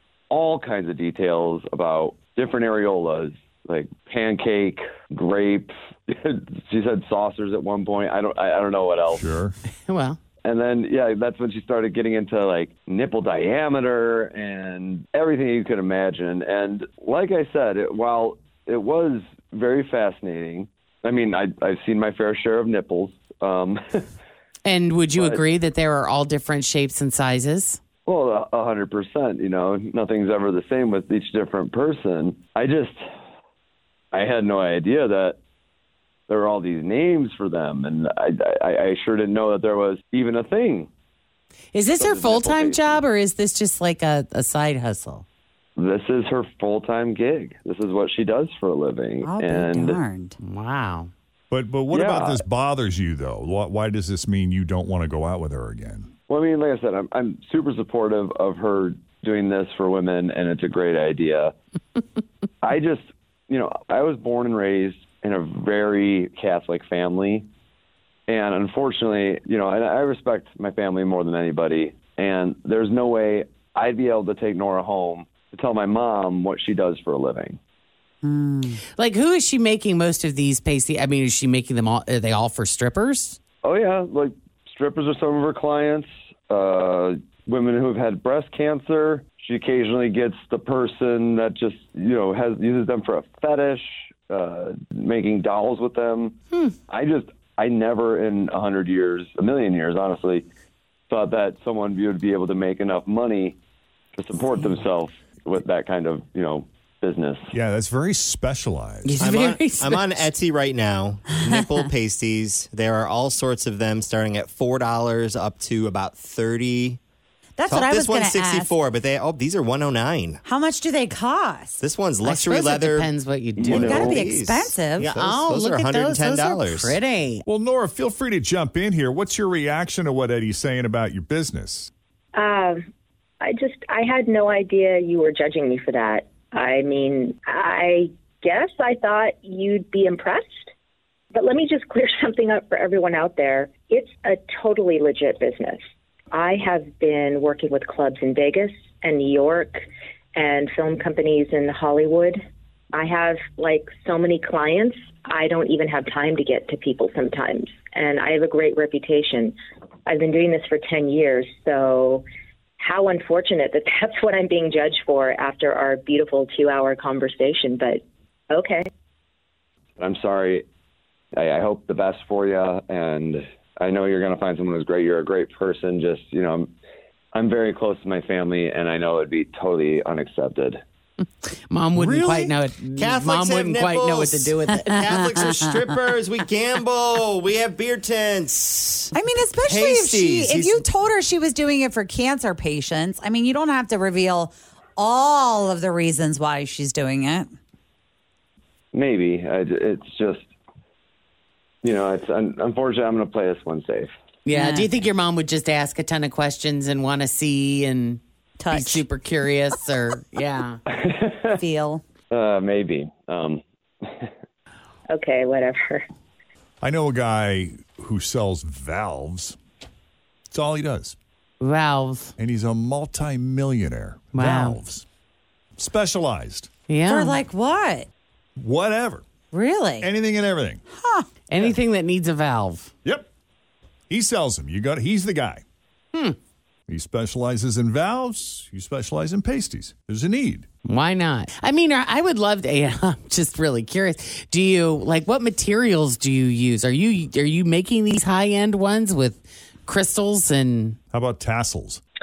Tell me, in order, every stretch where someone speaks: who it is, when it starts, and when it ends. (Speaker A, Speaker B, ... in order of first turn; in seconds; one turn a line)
Speaker A: 0.3-9.2
Speaker B: 9.1-9.5
Speaker C: 9.8-10.2
Speaker A: 10.4-24.0
Speaker C: 24.6-27.8
Speaker A: 25.1-25.4
Speaker A: 28.1-33.0
Speaker A: 34.1-35.4
Speaker A: 36.3-40.9
Speaker C: 41.7-45.2
Speaker A: 42.0-43.0
Speaker A: 45.8-50.0
Speaker D: 49.2-50.4
Speaker C: 50.4-51.1
Speaker B: 51.5-56.1
Speaker A: 51.9-52.4
Speaker A: 56.3-61.5
Speaker A: 62.6-67.5
Speaker A: 68.3-77.6
Speaker D: 78.2-78.8
Speaker C: 78.9-83.4
Speaker A: 83.6-96.3
Speaker A: 96.9-100.5
Speaker A: 101.1-103.5
Speaker A: 104.2-107.5
Speaker B: 107.5-109.2
Speaker C: 109.0-110.3
Speaker E: 109.2-117.0
Speaker D: 117.6-118.7
Speaker E: 117.7-120.4
Speaker D: 120.4-121.8
Speaker E: 121.8-127.0
Speaker C: 122.2-124.0
Speaker A: 123.6-124.2
Speaker D: 123.7-125.2
Speaker C: 125.0-127.4
Speaker B: 127.5-131.9
Speaker F: 132.3-132.8
Speaker F: 133.4-140.7
Speaker F: 141.3-145.8
Speaker F: 146.3-149.8
Speaker F: 150.3-152.4
Speaker F: 152.9-159.5
Speaker F: 160.1-162.2
Speaker F: 162.8-168.0
Speaker F: 168.5-168.8
Speaker A: 170.0-170.6
Speaker A: 171.3-176.7
Speaker A: 177.3-180.8
Speaker C: 181.7-185.6
Speaker E: 181.9-189.1
Speaker D: 189.1-197.5
Speaker E: 189.7-190.9
Speaker A: 198.9-200.5
Speaker A: 201.8-204.1
Speaker C: 204.4-210.8
Speaker D: 204.5-204.9
Speaker D: 208.6-209.0
Speaker A: 210.9-211.4
Speaker D: 211.5-212.0
Speaker A: 212.3-214.3
Speaker F: 215.1-216.0
Speaker B: 216.8-219.6
Speaker B: 220.5-221.2
Speaker C: 221.6-222.3
Speaker B: 222.4-225.0
Speaker C: 224.3-224.8
Speaker B: 225.8-226.7
Speaker C: 226.9-227.4
Speaker D: 227.1-228.1
Speaker B: 228.6-229.3
Speaker D: 229.5-230.1
Speaker B: 230.0-230.8
Speaker D: 230.9-231.3
Speaker C: 231.5-232.9
Speaker B: 234.1-235.6
Speaker B: 236.9-240.7
Speaker C: 240.8-251.0
Speaker B: 251.1-252.0